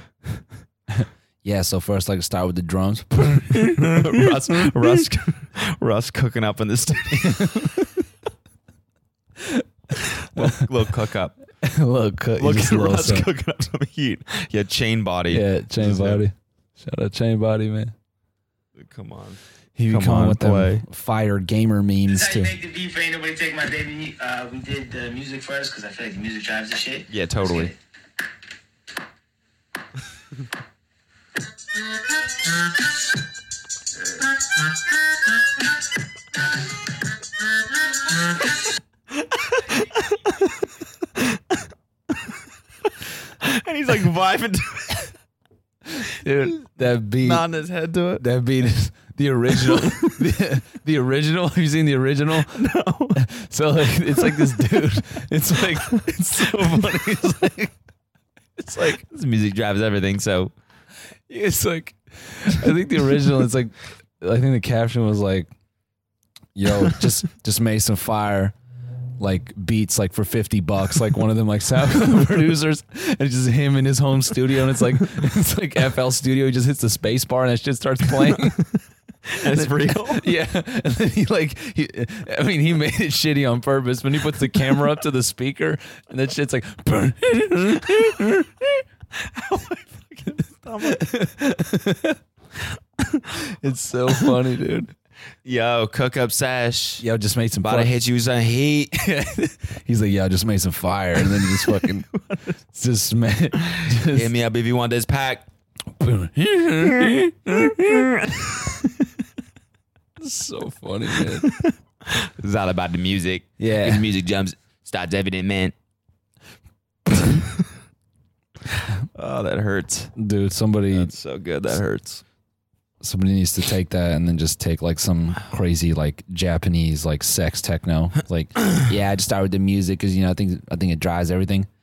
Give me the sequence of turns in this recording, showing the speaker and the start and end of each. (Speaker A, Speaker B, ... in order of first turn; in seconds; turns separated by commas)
Speaker A: 0.9-4.9, Speaker B: 3.5-7.8, Speaker A: 7.1-7.8, Speaker A: 9.4-10.6, Speaker B: 10.1-11.3, Speaker A: 11.6-13.3, Speaker B: 12.4-16.2, Speaker A: 15.3-17.9, Speaker B: 18.8-20.8, Speaker A: 19.8-22.6, Speaker C: 22.1-27.8, Speaker B: 27.1-27.7, Speaker B: 39.3-40.6, Speaker B: 43.4-45.1, Speaker A: 45.9-47.5, Speaker B: 47.2-48.2, Speaker A: 48.2-57.7, Speaker B: 49.6-50.1, Speaker B: 52.4-53.2, Speaker A: 58.6-59.0, Speaker B: 58.8-60.5, Speaker A: 61.3-65.5, Speaker A: 66.5-68.5, Speaker A: 69.2-78.6, Speaker B: 78.3-78.7, Speaker B: 79.2-80.3, Speaker A: 79.4-88.8, Speaker B: 89.3-91.0, Speaker A: 90.8-92.2, Speaker A: 93.3-94.9, Speaker B: 95.4-97.0, Speaker A: 97.0-97.9, Speaker B: 97.6-99.0, Speaker A: 98.9-102.1, Speaker A: 102.7-104.3, Speaker B: 103.7-105.4, Speaker A: 106.0-108.2, Speaker A: 110.2-111.5, Speaker B: 111.4-115.7, Speaker A: 113.6-114.0, Speaker B: 117.2-117.7, Speaker B: 118.7-120.1, Speaker A: 120.2-121.1, Speaker B: 120.9-122.2, Speaker A: 123.0-131.7